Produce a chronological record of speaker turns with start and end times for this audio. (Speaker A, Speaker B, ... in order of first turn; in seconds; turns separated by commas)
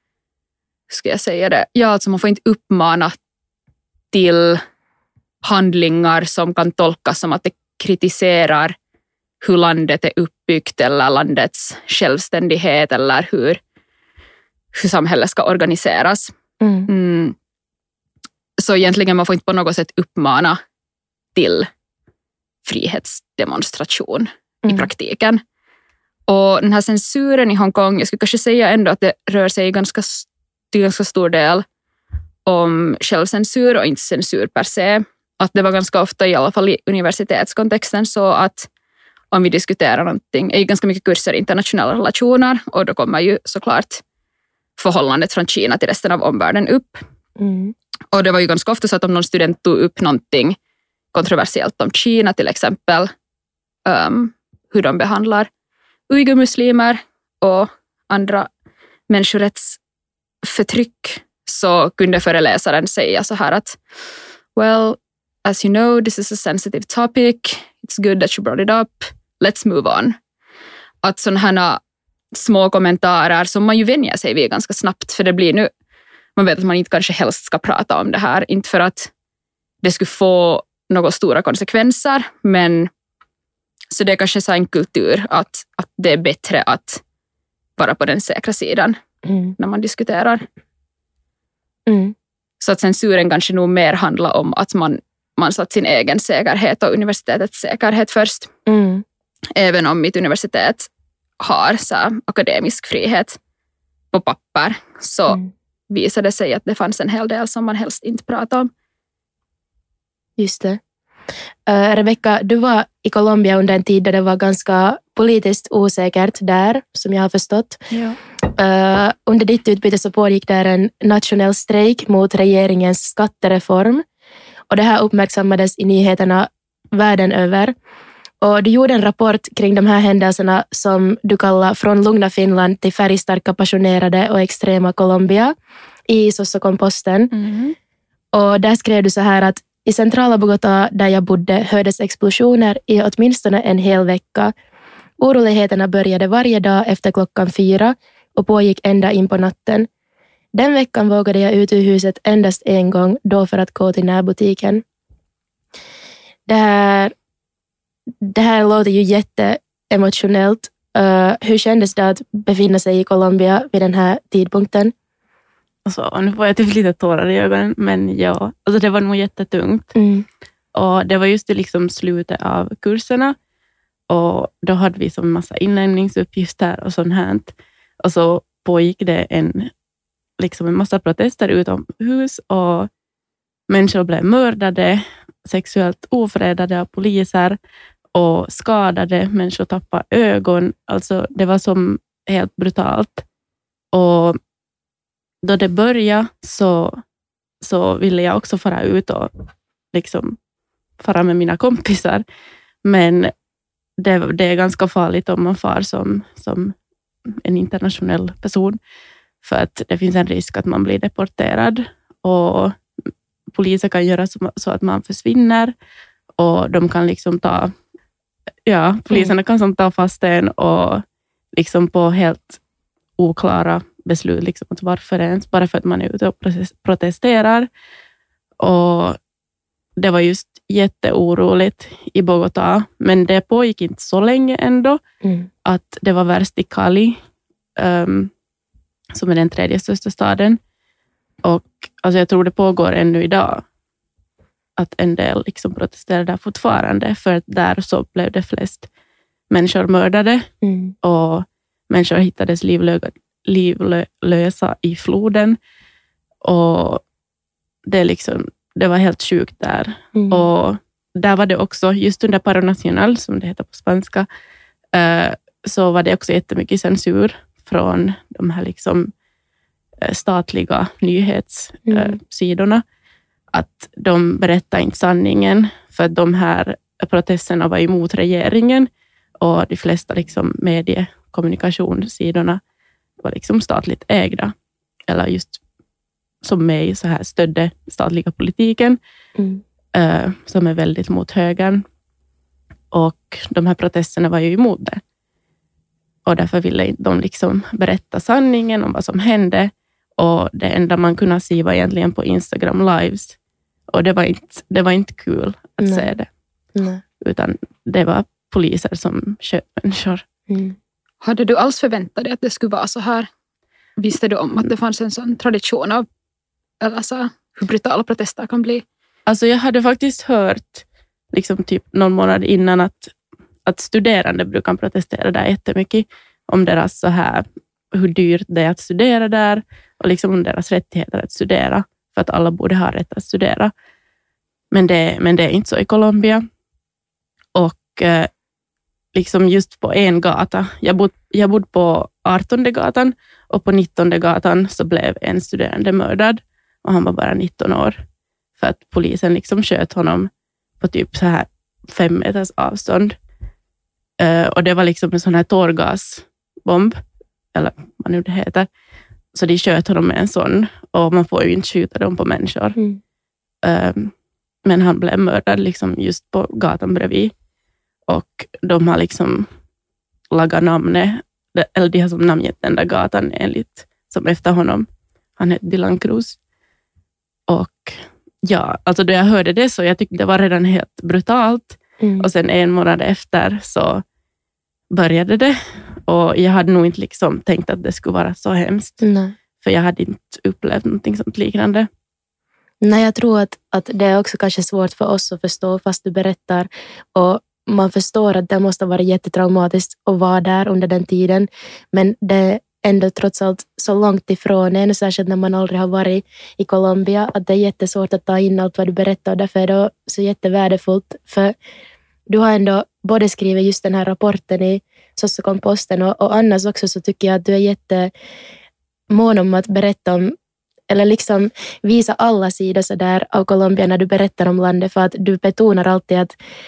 Speaker A: 0.9-3.1, Speaker A: 4.1-4.6, Speaker A: 5.4-8.7, Speaker A: 9.4-13.6, Speaker A: 14.7-16.3, Speaker B: 16.6-16.9, Speaker A: 16.9-17.4, Speaker A: 18.6-20.6, Speaker A: 21.3-21.7, Speaker A: 22.6-25.4, Speaker A: 26.3-31.6, Speaker A: 32.5-38.7, Speaker A: 39.3-44.0, Speaker A: 44.8-47.0, Speaker B: 47.4-47.7, Speaker A: 48.1-50.6, Speaker A: 51.1-53.1, Speaker A: 53.9-55.5, Speaker A: 56.1-58.5, Speaker A: 59.1-59.8, Speaker A: 60.4-63.8, Speaker A: 64.5-70.2, Speaker A: 71.0-71.8, Speaker A: 72.3-75.7, Speaker A: 76.3-79.1, Speaker A: 79.8-82.9, Speaker A: 83.9-87.0, Speaker A: 87.8-89.0, Speaker B: 89.2-89.5, Speaker A: 89.6-90.4, Speaker B: 91.9-92.1, Speaker A: 92.6-98.5, Speaker B: 98.7-99.0, Speaker A: 99.5-100.9, Speaker A: 101.4-103.4, Speaker A: 104.1-108.7, Speaker B: 110.4-110.8, Speaker B: 111.7-117.8, Speaker B: 118.5-124.0, Speaker B: 124.7-127.7, Speaker B: 128.4-135.5, Speaker B: 136.1-137.3, Speaker C: 137.3-137.7, Speaker B: 138.3-144.5, Speaker B: 145.2-149.9, Speaker B: 150.5-154.8, Speaker B: 156.4-157.1, Speaker B: 158.2-164.9, Speaker C: 165.8-169.9, Speaker B: 169.9-170.2, Speaker C: 170.7-173.3, Speaker C: 174.1-179.7, Speaker C: 180.4-182.9, Speaker C: 183.7-187.6, Speaker C: 188.1-193.2, Speaker C: 193.9-194.4, Speaker C: 195.4-197.0, Speaker C: 197.6-199.3, Speaker C: 199.9-200.4, Speaker C: 201.0-202.2, Speaker C: 202.8-203.3, Speaker C: 204.0-206.7, Speaker C: 207.3-208.8, Speaker C: 209.4-212.8, Speaker C: 213.5-215.7, Speaker C: 216.4-217.7, Speaker C: 218.7-221.0, Speaker C: 221.6-222.6, Speaker C: 223.2-227.7, Speaker C: 228.6-229.2, Speaker C: 230.0-235.0, Speaker C: 235.6-237.2, Speaker C: 237.8-238.3, Speaker C: 239.1-240.6, Speaker C: 241.4-243.6, Speaker C: 244.8-248.9, Speaker C: 249.5-250.5, Speaker B: 250.6-250.9, Speaker C: 251.0-255.6, Speaker C: 256.4-257.0, Speaker C: 257.9-264.2, Speaker B: 260.1-260.5, Speaker C: 264.9-269.1, Speaker C: 270.0-272.8, Speaker B: 271.9-272.2, Speaker C: 273.5-278.9, Speaker C: 279.4-282.6, Speaker C: 283.2-284.5, Speaker C: 285.1-285.6, Speaker C: 286.4-289.0, Speaker C: 289.9-291.8, Speaker C: 292.9-295.0, Speaker C: 296.2-303.4, Speaker C: 303.9-306.3, Speaker B: 305.8-306.1, Speaker B: 306.7-307.0, Speaker C: 307.2-310.2, Speaker B: 310.5-310.8, Speaker A: 311.2-313.3, Speaker A: 314.0-316.1, Speaker A: 316.8-318.8, Speaker C: 319.3-323.1, Speaker C: 323.6-333.7, Speaker C: 334.7-336.4, Speaker C: 337.5-338.3, Speaker C: 339.1-348.0, Speaker C: 348.6-353.1, Speaker C: 354.2-357.0, Speaker C: 357.5-358.7, Speaker C: 359.3-362.8, Speaker C: 363.6-364.1, Speaker C: 364.6-367.3, Speaker C: 368.1-369.5, Speaker C: 370.3-374.9, Speaker C: 375.4-376.4, Speaker C: 377.5-384.0, Speaker B: 382.0-382.3, Speaker C: 384.9-389.0, Speaker B: 389.0-389.3, Speaker C: 389.6-391.9, Speaker B: 392.8-411.5, Speaker B: 412.3-418.1, Speaker B: 419.1-420.3, Speaker B: 420.9-426.3